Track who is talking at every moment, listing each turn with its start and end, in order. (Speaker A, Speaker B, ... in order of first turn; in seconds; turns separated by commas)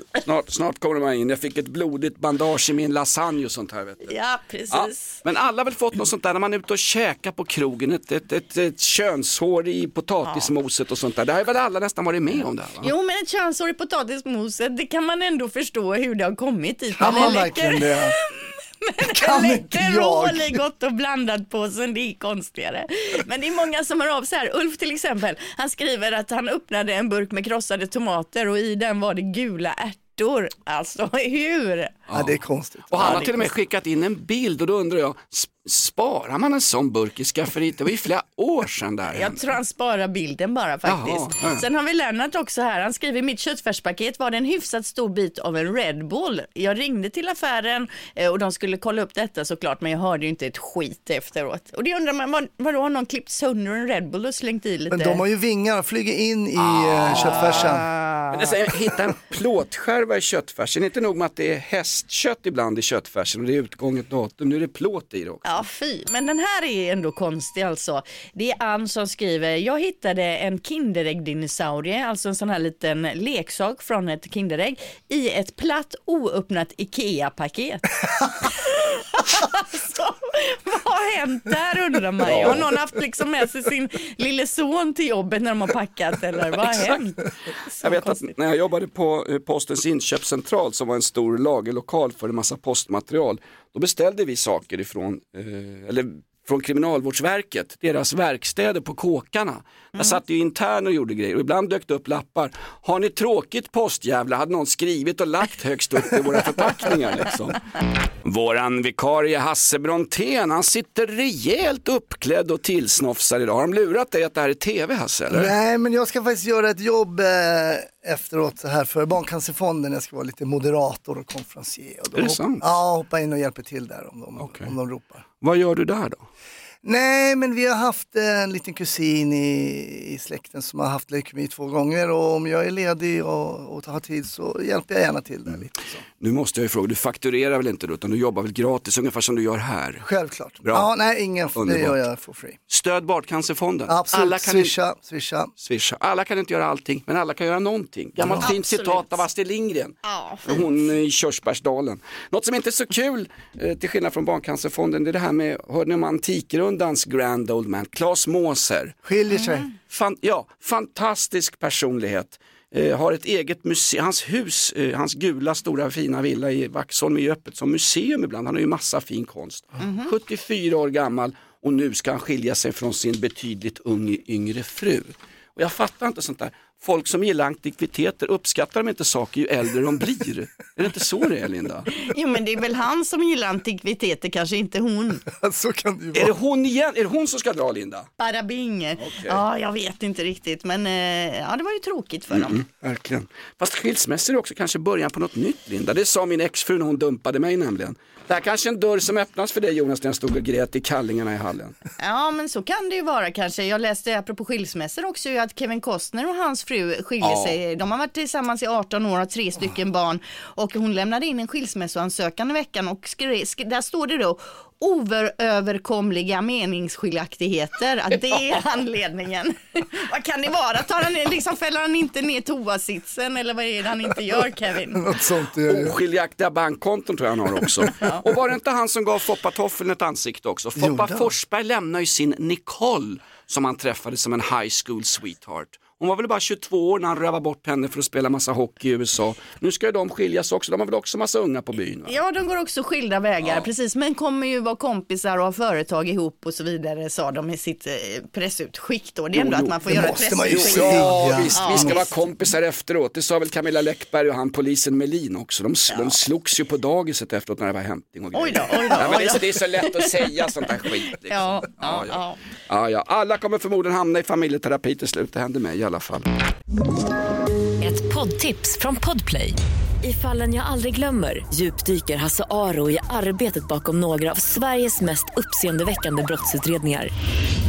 Speaker A: 0.2-4.1, Speaker B: 4.0-5.2, Speaker A: 4.7-12.9, Speaker B: 12.8-32.0, Speaker C: 17.0-18.1, Speaker C: 19.0-20.6, Speaker A: 32.1-32.4, Speaker C: 32.1-33.3, Speaker A: 32.9-39.4, Speaker B: 33.0-33.5, Speaker B: 39.1-55.2, Speaker A: 40.9-41.6, Speaker C: 54.9-57.9, Speaker A: 56.6-57.7, Speaker B: 57.1-58.3, Speaker A: 58.3-65.6, Speaker B: 65.5-88.3, Speaker A: 82.3-82.7, Speaker A: 86.5-87.0, Speaker A: 87.8-107.6, Speaker A: 108.2-115.5, Speaker C: 115.3-125.2, Speaker A: 122.2-122.8, Speaker A: 124.4-124.7, Speaker A: 125.4-126.2, Speaker C: 126.8-135.8, Speaker A: 136.2-140.1, Speaker C: 140.1-142.6, Speaker A: 141.6-142.0, Speaker A: 142.7-144.7, Speaker C: 143.9-145.5, Speaker A: 145.6-159.0, Speaker C: 148.2-148.5, Speaker B: 148.4-149.2, Speaker B: 150.0-150.7, Speaker C: 159.1-159.7, Speaker B: 159.4-159.7, Speaker A: 159.9-181.9, Speaker B: 169.8-170.1, Speaker B: 182.0-185.2, Speaker C: 185.3-186.3, Speaker A: 186.1-188.1, Speaker B: 188.2-192.6, Speaker A: 189.0-189.4, Speaker A: 192.3-201.8, Speaker B: 202.0-225.1, Speaker A: 207.2-207.6, Speaker C: 224.9-226.0, Speaker A: 225.7-242.2, Speaker B: 228.0-228.2, Speaker C: 230.8-231.3, Speaker B: 242.1-252.1, Speaker A: 249.3-266.3, Speaker C: 249.9-252.0, Speaker B: 258.3-262.4, Speaker D: 267.8-277.1